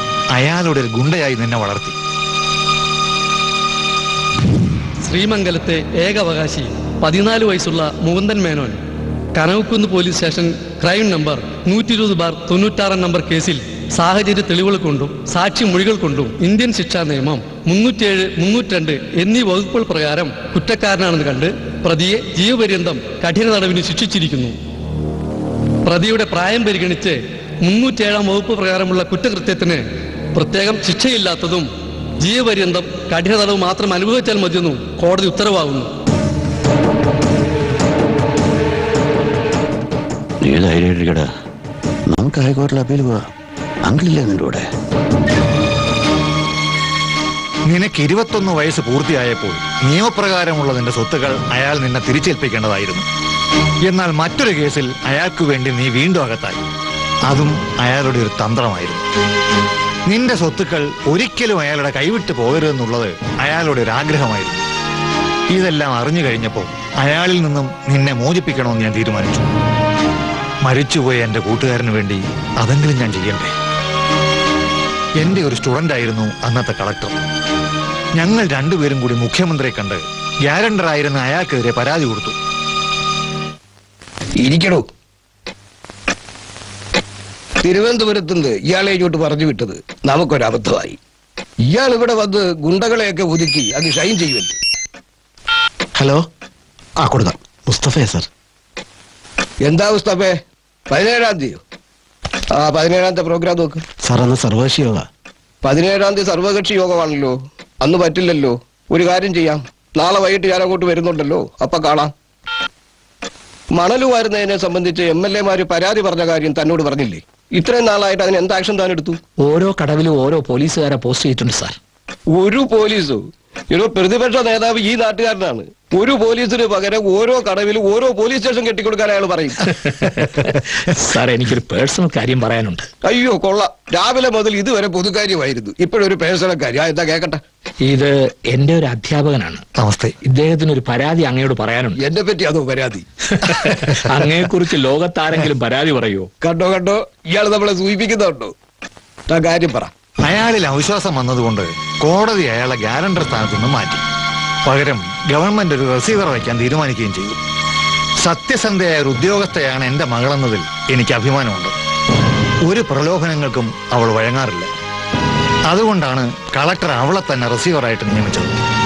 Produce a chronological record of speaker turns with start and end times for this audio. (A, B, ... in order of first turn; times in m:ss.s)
0:00.3-0:02.0 A
0:05.0-0:08.8 B
0:09.4-0:24.6 B
0:25.9-0:29.8 B
0:30.4-0:31.7 B
0:32.2-0:35.9 B
0:40.4-0:41.3 C
0:42.1-0:43.3 C
0:43.8-0:44.6 C
0:47.7-0:53.0 A
0:53.8-0:56.6 A
0:57.3-0:59.0 A
1:00.1-1:04.6 A
1:05.5-1:09.4 A
1:10.6-1:13.5 A
1:15.2-1:17.2 A
1:18.2-1:22.4 A
1:24.4-1:24.9 D
1:27.6-1:31.0 D
1:31.7-1:34.6 D
1:36.0-1:36.2 E
1:37.0-1:38.3 E
1:39.6-1:40.4 D
1:40.9-1:41.6 D
1:42.6-1:43.8 D
1:44.0-1:45.1 E
1:45.6-1:52.1 D
1:53.8-1:59.2 D
1:59.4-2:01.8 F
2:02.3-2:09.6 D
2:10.0-2:12.9 F
2:13.0-2:17.4 D
2:17.9-2:19.6 F
2:19.8-2:20.2 A
2:20.2-2:22.0 F
2:22.0-2:23.5 D
2:23.5-2:26.3 F
2:26.4-2:28.5 D
2:29.3-2:29.9 D
2:30.2-2:34.0 A
2:34.7-2:37.4 A
2:38.2-2:41.7 A
2:42.6-2:44.7 A
2:45.7-2:48.5 A